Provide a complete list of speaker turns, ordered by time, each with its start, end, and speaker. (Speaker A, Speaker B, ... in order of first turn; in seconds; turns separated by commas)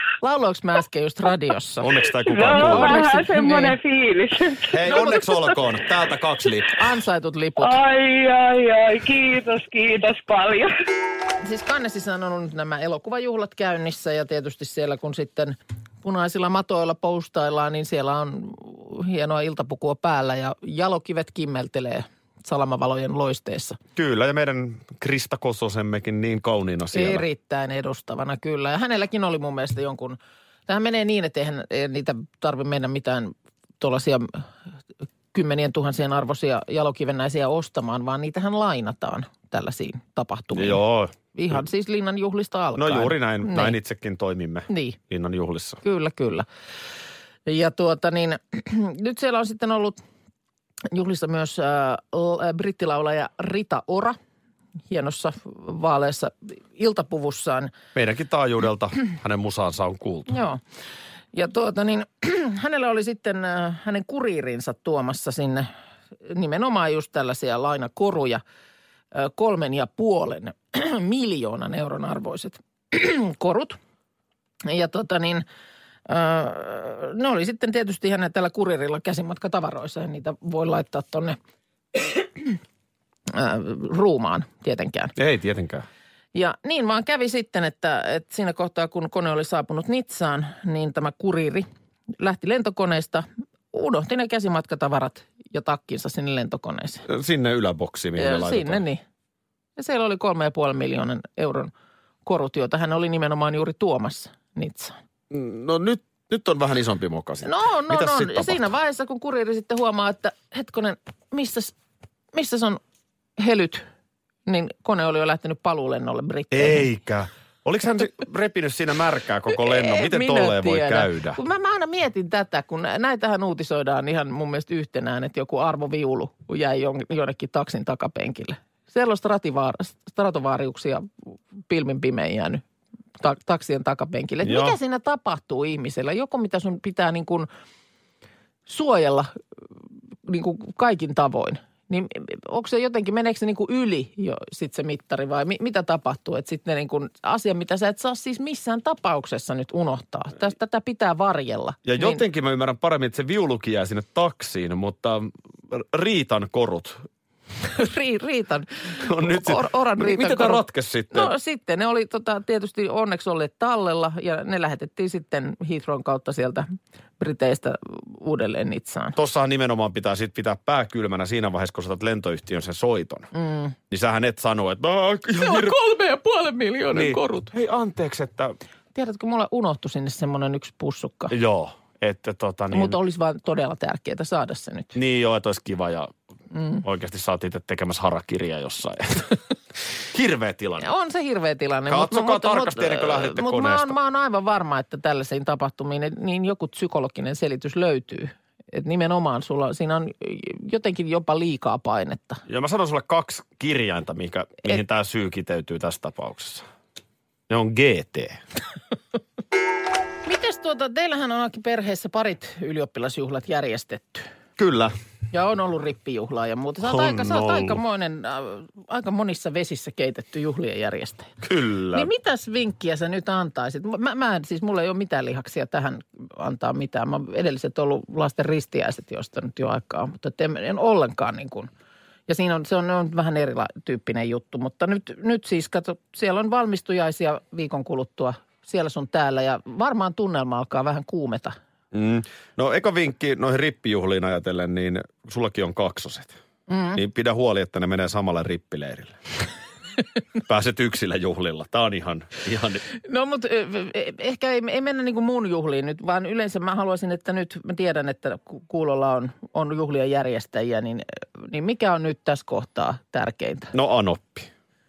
Speaker A: 0.2-1.9, Speaker B: 1.8-3.0, Speaker C: 2.3-4.7, Speaker A: 2.5-3.8, Speaker B: 4.7-6.8, Speaker A: 4.8-5.3, Speaker A: 6.8-7.8, Speaker C: 7.6-10.7, Speaker A: 11.4-23.8, Speaker B: 24.0-27.3, Speaker A: 26.9-34.4, Speaker A: 35.3-40.8, Speaker B: 40.5-41.6, Speaker A: 41.3-43.8, Speaker B: 42.8-45.8, Speaker A: 44.7-45.0, Speaker A: 45.8-46.5, Speaker A: 47.5-50.0, Speaker A: 50.9-54.2, Speaker A: 54.9-57.7, Speaker B: 58.0-60.4, Speaker A: 60.3-60.6, Speaker A: 61.3-65.7, Speaker A: 66.3-68.4, Speaker A: 69.1-73.8, Speaker A: 74.7-75.5, Speaker A: 76.1-81.4, Speaker A: 82.0-82.6, Speaker A: 83.3-85.1, Speaker B: 85.2-85.9, Speaker A: 86.3-91.7, Speaker A: 92.2-97.0, Speaker B: 97.1-98.8, Speaker A: 98.2-99.0, Speaker A: 99.8-101.7, Speaker A: 102.3-105.0, Speaker B: 105.3-108.6, Speaker A: 107.4-111.7, Speaker A: 112.3-112.8, Speaker A: 113.4-113.8, Speaker A: 114.5-116.9, Speaker B: 116.5-121.4, Speaker A: 119.5-131.1, Speaker A: 131.7-132.6, Speaker A: 133.2-137.5, Speaker B: 134.4-134.8, Speaker A: 138.7-139.3, Speaker A: 140.3-152.2, Speaker B: 151.8-157.0, Speaker A: 157.7-166.7, Speaker B: 159.0-161.3, Speaker A: 167.2-169.2, Speaker B: 169.2-173.3, Speaker A: 173.3-173.8, Speaker B: 173.9-175.8, Speaker A: 175.4-177.5, Speaker B: 176.9-178.6, Speaker A: 178.9-181.3, Speaker B: 181.3-183.0, Speaker A: 182.7-184.9, Speaker B: 184.9-186.1, Speaker A: 186.5-186.8, Speaker B: 186.8-189.4, Speaker B: 190.1-190.9, Speaker A: 190.8-202.4, Speaker B: 191.9-193.9, Speaker B: 202.5-206.7, Speaker B: 207.5-208.4, Speaker A: 210.3-214.3, Speaker B: 214.6-214.9, Speaker A: 215.3-221.3, Speaker B: 216.8-217.8, Speaker B: 221.4-222.1, Speaker A: 221.9-231.7, Speaker A: 232.3-241.6, Speaker B: 241.9-246.4, Speaker A: 246.7-247.0, Speaker B: 246.9-249.2, Speaker B: 250.4-252.8, Speaker A: 253.1-263.7, Speaker B: 263.7-264.5